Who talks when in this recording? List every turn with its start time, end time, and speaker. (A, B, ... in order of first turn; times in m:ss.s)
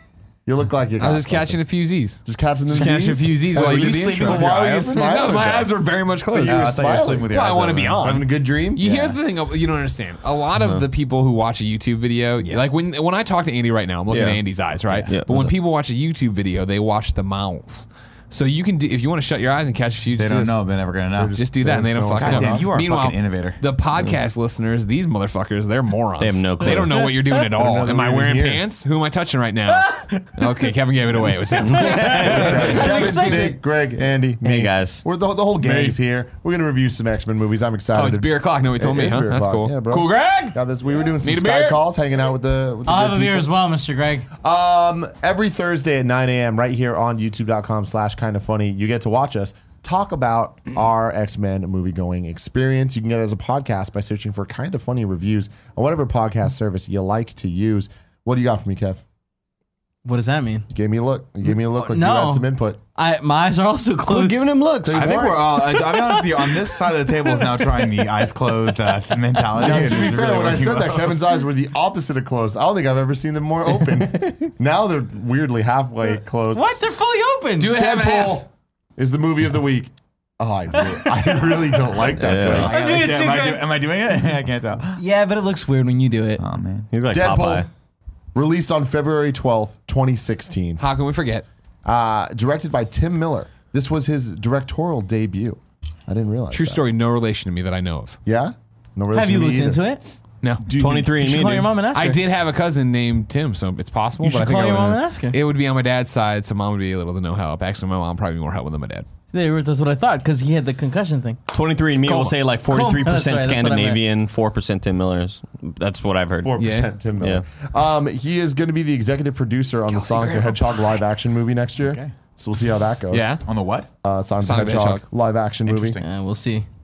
0:00.4-0:01.6 A
0:01.0-0:02.2 B
0:02.2-0:05.7 A
0:02.7-0:20.6 B
0:02.8-0:03.7 C
0:03.5-0:05.2 D
0:06.3-0:07.3 A
0:06.4-0:08.1 D
0:08.0-0:09.0 A
0:08.8-0:09.2 D
0:10.6-0:10.8 C
0:14.1-0:15.5 C
0:20.2-0:21.4 D
0:21.2-0:22.7 A
0:21.3-0:33.0 B
0:22.1-0:23.6 D
0:26.2-0:27.1 C
0:26.6-0:27.3 E
0:27.4-0:28.6 A
0:29.8-0:30.4 E
0:31.6-0:33.0 C
0:31.7-0:33.6 E
0:32.1-0:43.5 A
0:34.4-0:35.0 C
0:35.6-0:36.0 B
0:37.9-0:40.6 B
0:41.2-0:41.8 B
0:42.8-0:44.3 E
0:44.4-0:59.0 A
1:00.0-1:00.7 E
1:00.7-1:02.8 A
1:01.7-1:02.4 E
1:03.0-1:04.6 E
1:04.0-1:05.3 C
1:04.8-1:05.5 A
1:04.9-1:11.2 D
1:05.5-1:08.0 E
1:09.5-1:16.7 A
1:16.5-1:17.8 E
1:17.6-1:18.4 B
1:17.7-1:22.8 A
1:21.0-1:21.6 E
1:22.2-1:22.7 C
1:22.3-1:25.0 D
1:22.6-1:23.6 E
1:25.0-1:26.4 E
1:26.4-1:26.9 D
1:26.9-1:27.7 C
1:27.1-1:27.7 A
1:28.3-1:30.8 A
1:30.8-1:31.4 B
1:31.8-1:36.8 A
1:36.5-1:38.2 B
1:38.2-1:39.8 A
1:39.1-1:40.0 E
1:40.6-1:41.1 D
1:40.7-1:41.7 C
1:41.2-1:42.2 E
1:41.9-1:49.0 B
1:44.2-1:45.4 E
1:49.3-1:51.4 E
1:51.5-1:56.6 C
1:52.1-1:54.0 E
1:56.4-2:03.4 A
1:56.6-1:56.9 B
1:57.2-1:57.4 C
2:00.0-2:00.5 E
2:01.8-2:02.1 D
2:03.1-2:03.4 B
2:03.4-2:03.9 D
2:04.0-2:06.0 A
2:04.4-2:05.0 B
2:05.8-2:06.6 E